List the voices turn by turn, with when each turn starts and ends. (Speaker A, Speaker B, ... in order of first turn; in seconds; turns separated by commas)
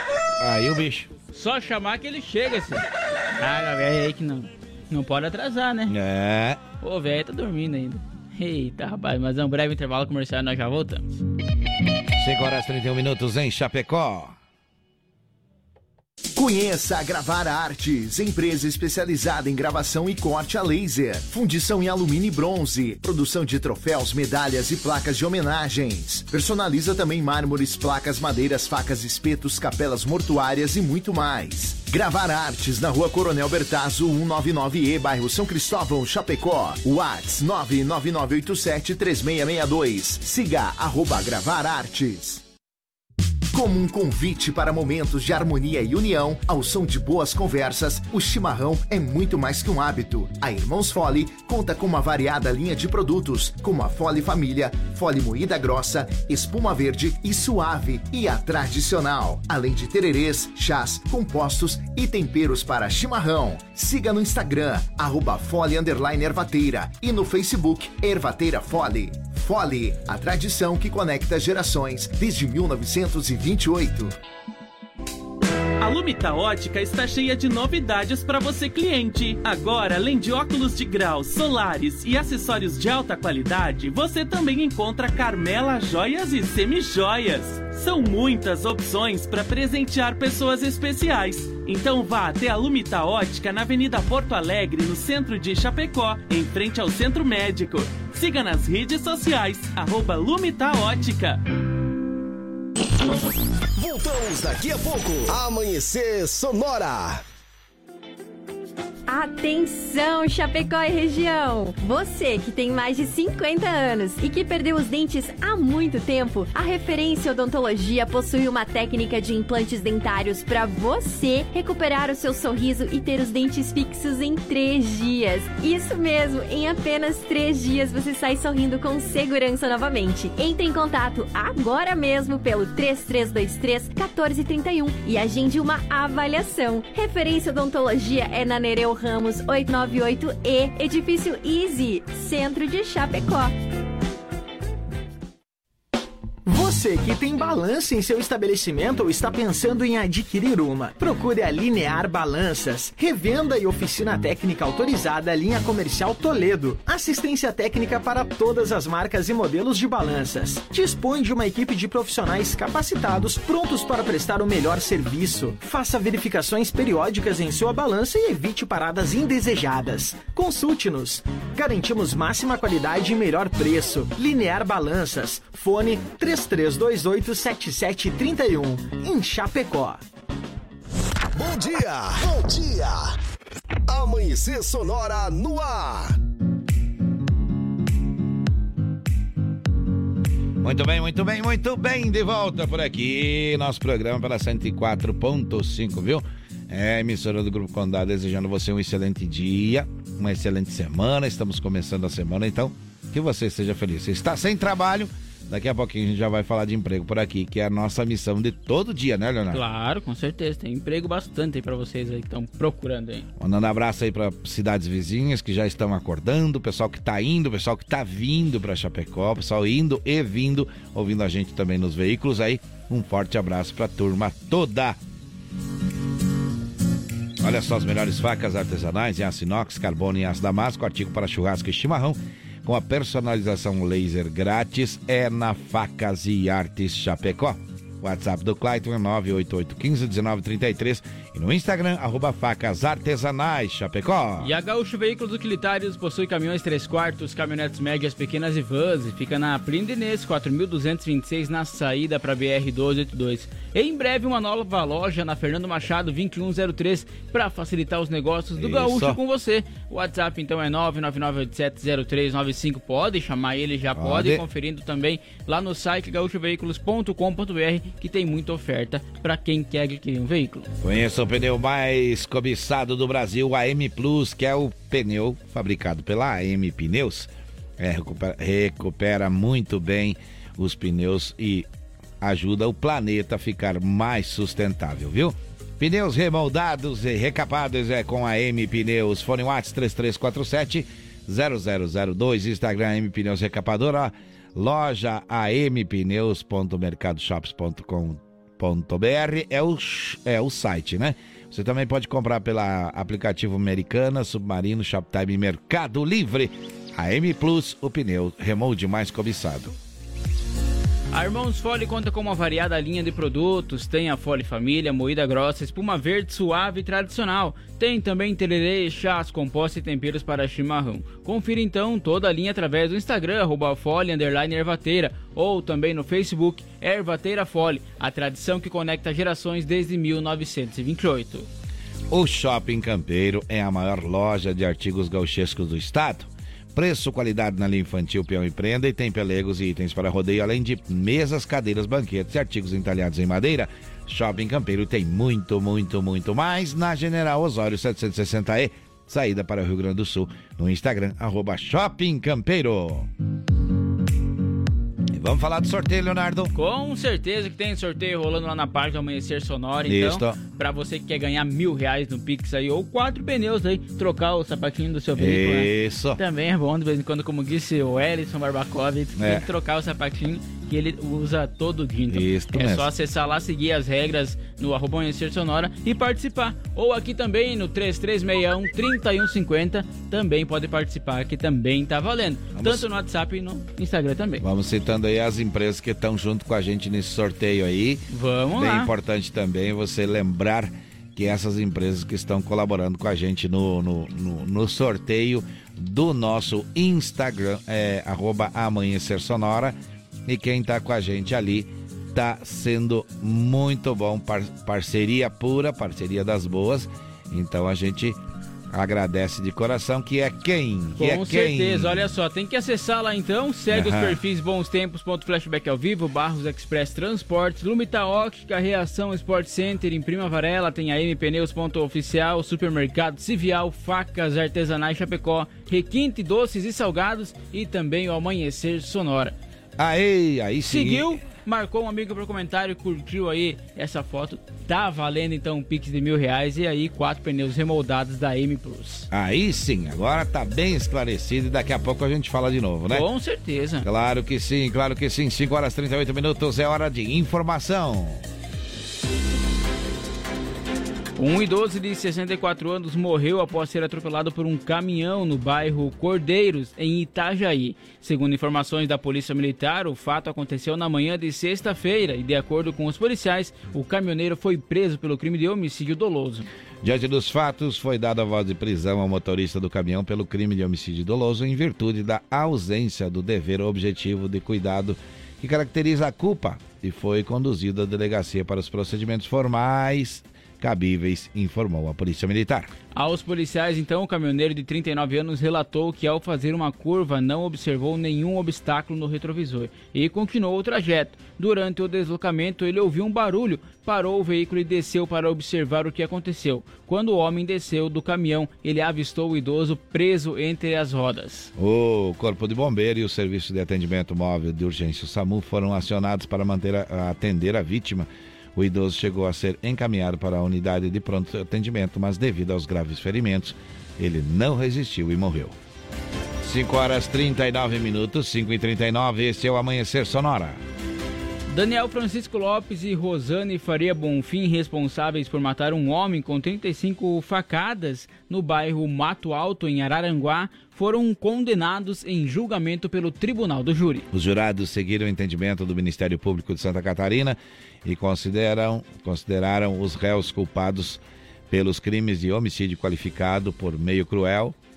Speaker A: 0.4-1.1, Speaker B: 1.3-2.8, Speaker B: 3.4-5.9, Speaker A: 5.9-6.6, Speaker B: 6.8-11.1, Speaker A: 12.2-14.4, Speaker C: 16.4-42.4, Speaker C: 43.5-74.1, Speaker D: 75.8-101.4, Speaker E: 103.8-107.2, Speaker F: 109.1-143.5, Speaker G: 146.5-180.0, Speaker E: 181.4-183.1, Speaker E: 183.9-186.2, Speaker A: 190.6-209.6, Speaker B: 209.5-213.3, Speaker A: 213.4-225.0, Speaker A: 227.4-244.5, Speaker B: 244.4-270.7, Speaker A: 258.6-259.2, Speaker A: 263.9-264.4, Speaker A: 270.8-281.7, Speaker A: 282.2-309.8, Speaker B: 311.1-331.5, Speaker A: 332.1-353.1, Speaker A: 355.1-356.5, Speaker B: 356.5-384.4, Speaker A: 359.9-360.4, Speaker A: 365.2-366.2, Speaker A: 369.2-369.4, Speaker A: 372.1-372.9, Speaker A: 382.6-382.9, Speaker A: 384.4-388.0, Speaker B: 388.1-388.9, Speaker A: 388.5-408.2, Speaker A: 408.7-412.1, Speaker B: 411.0-429.4, Speaker A: 413.7-414.2, Speaker A: 429.8-431.2, Speaker B: 430.7-439.1, Speaker A: 439.1-443.1, Speaker B: 442.9-443.9, Speaker A: 443.8-448.2, Speaker B: 451.2-466.5, Speaker A: 466.8-482.7, Speaker B: 482.9-501.5, Speaker A: 501.6-515.5, Speaker A: 516.4-520.6, Speaker B: 521.5-534.1, Speaker A: 534.1-544.6